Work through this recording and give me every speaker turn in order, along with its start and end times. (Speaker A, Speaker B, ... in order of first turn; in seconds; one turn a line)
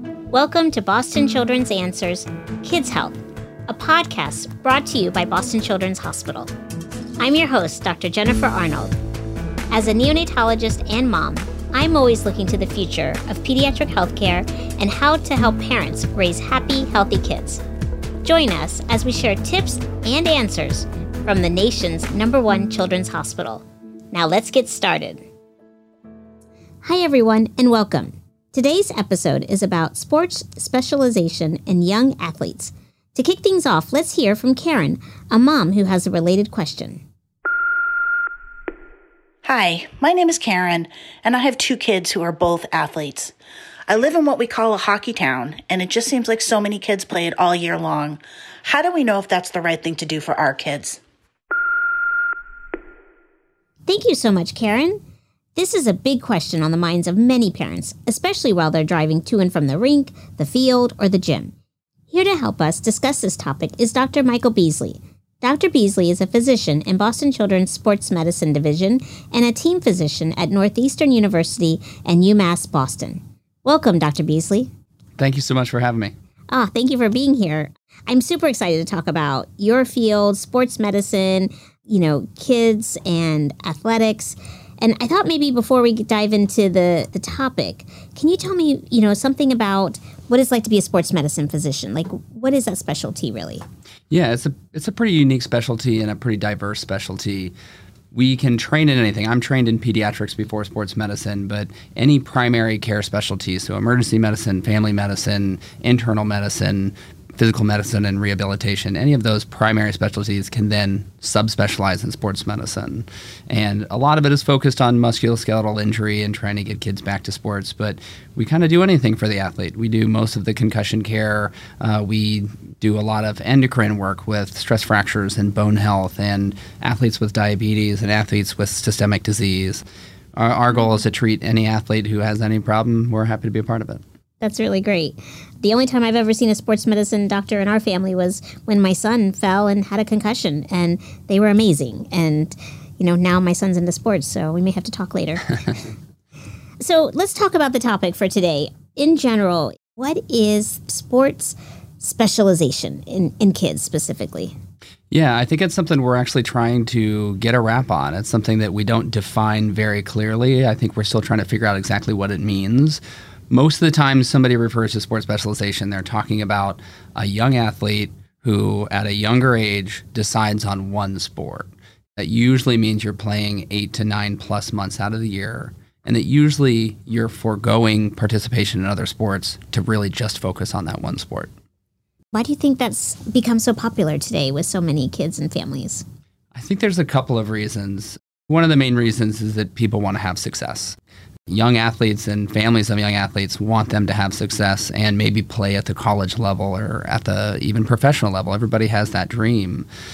Speaker A: 0.3-3.1
Speaker A: 3.7-6.5
Speaker A: 7.2-8.9
Speaker A: 9.7-17.6
Speaker A: 18.2-25.2
Speaker A: 26.8-37.0
Speaker B: 39.4-43.3
Speaker B: 43.9-51.0
Speaker A: 53.9-55.0
Speaker A: 55.5-61.5
Speaker A: 62.1-74.7
Speaker C: 75.2-76.1
Speaker A: 76.5-93.6
Speaker C: 94.1-97.5
Speaker C: 98.1-129.8
Speaker C: 130.3-134.0
Speaker A: 134.4-145.8
Speaker A: 146.8-154.5
Speaker C: 155.1-181.5
Speaker A: 182.3-186.0
Speaker C: 186.5-191.0
Speaker C: 191.5-199.9